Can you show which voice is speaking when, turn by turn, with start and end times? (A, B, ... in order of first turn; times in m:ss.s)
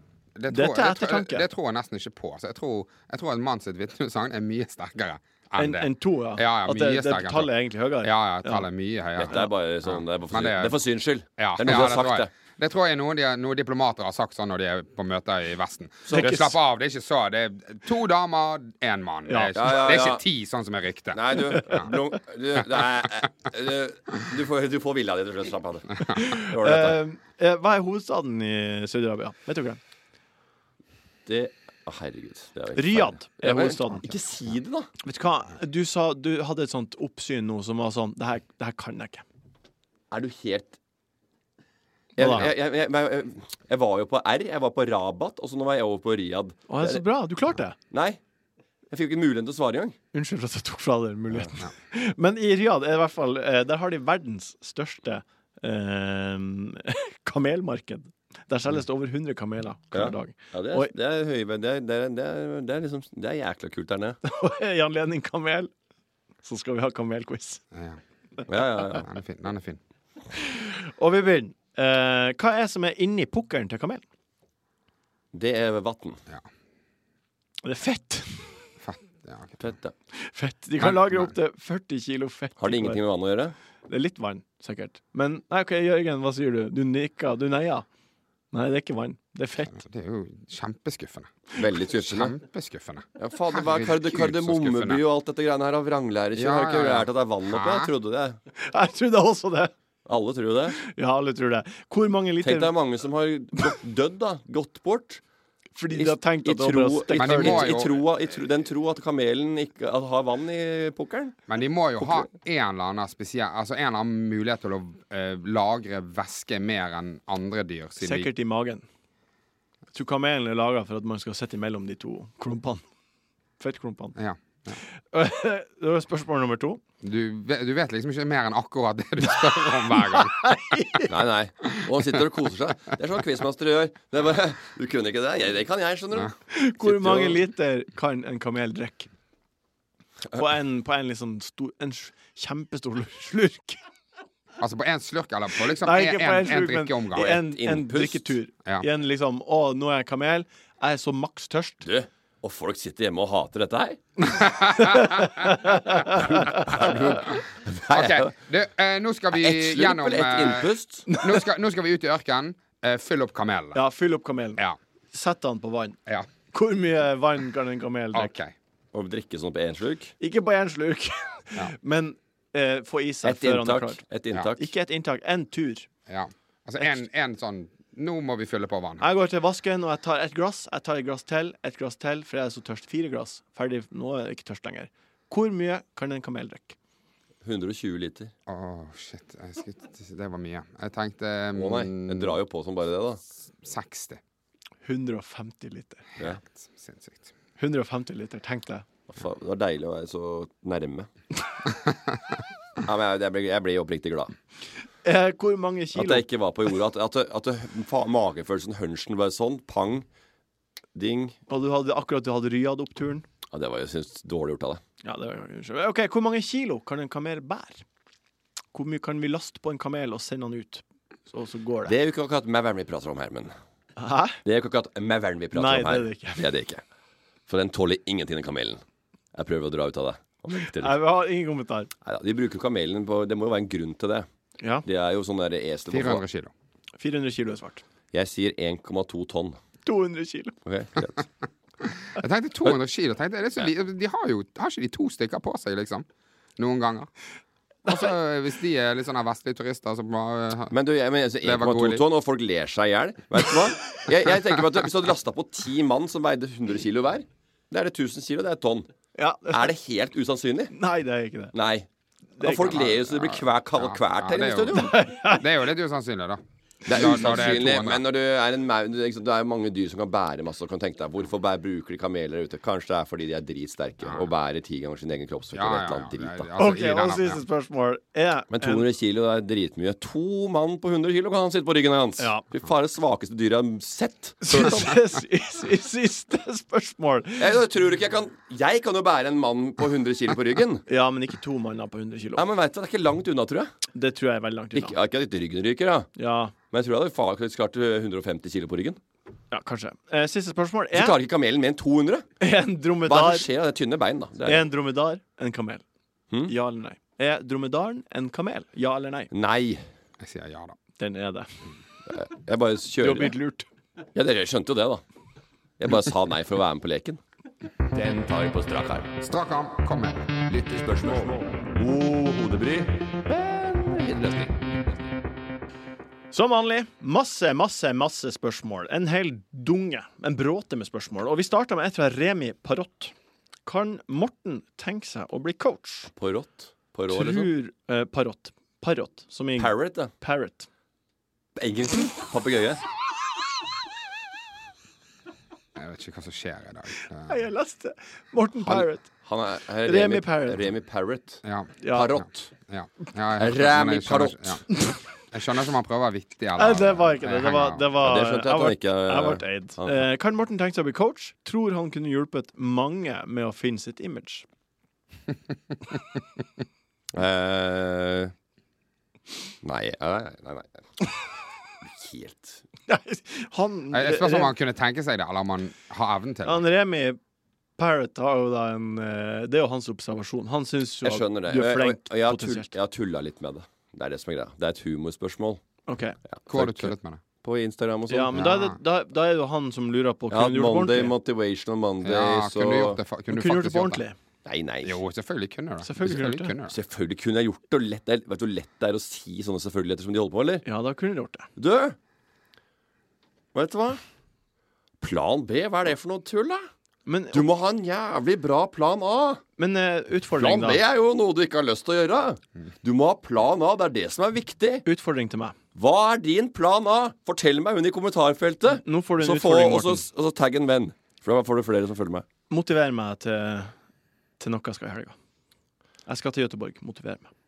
0:00.4-0:07.5 A
0:00.5-0:01.4 B
0:05.6-0:08.6 B
0:08.0-0:10.8 A
0:09.2-0:12.3 C
0:11.4-0:21.9 A
0:16.0-0:16.4 C
0:16.1-0:16.6 B
0:19.3-0:19.5 B
0:19.5-0:20.2 C
0:21.1-0:27.0 C
0:26.0-0:29.8 B
0:31.2-0:34.9 C
0:32.7-0:34.1 B
0:35.0-0:39.2 B
0:40.1-0:40.8 C
0:42.2-0:47.0 C
0:42.2-0:42.5 B
0:46.7-0:47.8 B
0:47.9-0:48.2 C
0:48.9-0:50.0 C
0:50.1-1:00.9 B
0:59.9-1:04.2 C
1:04.2-1:05.7 B
1:06.4-1:07.6 B
1:07.7-1:08.0 A
1:08.5-1:09.0 C
1:09.0-1:09.8 A
1:10.3-1:14.0 B
1:15.3-1:16.2 C
1:17.6-1:18.6 B
1:18.8-1:19.6 A
1:19.6-1:19.9 C
1:20.1-1:23.0 B
1:20.8-1:21.3 A
1:22.6-1:23.5 C
1:23.9-1:27.8 B
1:28.5-1:29.8 B
1:29.7-1:35.0 A
1:31.6-1:32.3 C
1:33.2-1:38.4 C
1:36.4-1:37.9 A
1:38.5-1:39.7 B
1:40.0-1:40.8 C
1:40.8-1:42.7 B
1:42.4-1:45.2 C
1:45.7-1:47.8 B
1:45.9-1:51.4 C
1:47.2-1:48.0 A
1:51.5-1:58.3 A
1:52.0-1:52.3 C
1:58.0-1:58.8 B
1:59.9-2:02.8 B
2:03.6-2:04.2 B
2:04.2-2:04.8 A
2:04.8-2:06.8 B
2:07.0-2:10.4 A
2:09.3-2:11.1 B
2:11.1-2:17.4 C
2:16.5-2:19.1 B
2:20.3-2:23.8 B
2:24.6-2:27.3 A
2:25.6-2:31.8 B
2:27.1-2:28.3 C
2:31.8-2:34.0 C
2:34.3-2:35.3 A
2:34.9-2:36.8 B
2:36.2-2:38.3 C
2:37.1-2:43.8 A
2:39.3-2:41.1 C
2:41.1-2:41.4 B
2:43.7-2:44.6 B
2:45.1-2:46.0 B
2:46.5-2:48.3 B
2:48.1-2:48.5 A
2:48.9-2:50.1 C
2:50.2-2:54.0 B
2:53.2-2:54.6 C
2:54.6-2:55.9 B
2:56.1-2:59.0 A
2:59.0-3:06.8 B
3:07.4-3:08.3 C
3:08.5-3:12.4 A
3:11.5-3:13.2 C
3:13.6-3:14.2 A
3:14.8-3:16.0 B
3:16.2-3:17.3 A
3:17.6-3:18.8 B
3:19.1-3:21.1 C
3:22.8-3:24.3 C
3:25.0-3:26.2 B
3:25.9-3:30.0 C
3:30.9-3:31.4 C
3:31.5-3:33.2 B
3:33.5-3:34.8 C
3:35.0-3:37.8 B
3:38.7-3:41.9 B
3:41.9-3:43.5 C
3:44.0-3:44.4 B
3:44.4-3:46.8 C
3:45.5-3:46.5 B
3:47.5-3:48.8 C
3:49.3-3:51.0 C
3:50.5-3:51.9 B
3:52.0-3:54.3 C
3:54.6-3:54.8 B
3:54.8-3:56.2 C
3:55.9-3:56.5 A
3:57.0-3:57.8 B
3:58.1-3:59.6 C
3:59.8-4:00.5 B
4:00.6-4:01.2 C
4:01.9-4:06.0 A
4:06.6-4:07.1 A
4:07.9-4:10.7 A
4:10.7-4:18.9 C
4:11.4-4:12.0 A
4:19.2-4:19.7 B
4:19.5-4:20.7 C
4:20.7-4:21.5 B
4:21.5-4:21.9 C
4:22.4-4:22.9 B
4:22.4-4:24.9 C
4:22.7-4:28.0 A
4:24.7-4:25.5 B
4:26.8-4:36.5 C
4:35.5-4:37.4 A
4:36.6-4:38.8 B
4:38.5-4:45.0 C
4:42.2-4:42.4 B
4:44.4-4:47.5 B
4:47.4-4:50.8 C
4:50.9-4:52.4 B
4:52.4-4:53.7 C
4:53.9-4:54.9 B
4:54.7-4:56.1 C
4:56.2-4:56.5 B
4:56.7-4:59.0 C
4:59.5-5:01.1 B
5:00.9-5:02.3 C
5:02.4-5:03.4 B
5:03.1-5:04.7 C
5:04.4-5:05.8 B
5:06.5-5:09.3 B
5:09.3-5:09.8 C
5:10.2-5:10.8 A
5:11.0-5:11.5 B
5:12.1-5:13.3 C
5:13.0-5:13.7 B
5:14.1-5:15.0 C
5:15.8-5:17.2 C
5:17.9-5:19.1 C
5:19.2-5:20.4 A
5:20.5-5:24.9 C
5:26.3-5:33.1 B
5:33.6-5:36.1 B
5:36.1-5:37.5 C
5:37.1-5:40.7 B
5:39.6-5:40.1 C
5:41.6-5:42.8 C
5:45.8-5:47.4 A
5:47.2-5:49.0 B
5:48.6-5:52.5 C
5:49.8-5:50.6 B
5:51.4-5:54.6 A
5:51.8-5:52.1 B
5:53.4-5:54.6 C
5:55.3-5:57.8 A
5:56.6-6:04.4 B
5:58.0-6:00.0 C
6:07.1-6:08.3 C
6:09.6-6:10.8 C
6:11.8-6:12.6 C
6:12.9-6:14.5 B
6:13.9-6:16.6 A
6:16.4-6:17.2 B
6:17.8-6:22.7 B
6:21.0-6:25.6 C
6:25.9-6:26.2 B
6:26.3-6:28.5 C
6:26.5-6:27.2 A
6:28.1-6:31.1 B
6:28.3-6:28.8 A
6:30.3-6:33.0 C
6:32.0-6:34.0 A
6:33.3-6:34.2 B
6:34.4-6:35.0 C
6:34.8-6:36.7 A
6:35.8-6:36.5 B
6:36.7-6:40.6 C
6:40.6-6:41.5 B
6:41.6-6:42.0 C
6:43.5-6:44.0 C
6:45.0-6:46.7 C
6:47.0-6:47.4 B
6:47.3-6:49.4 C
6:49.6-6:50.8 B
6:50.4-6:54.8 C
6:54.8-6:55.6 B
6:55.7-7:02.2 C
6:58.7-7:00.0 B
7:02.5-7:03.7 B
7:04.4-7:05.2 B
7:06.1-7:07.3 B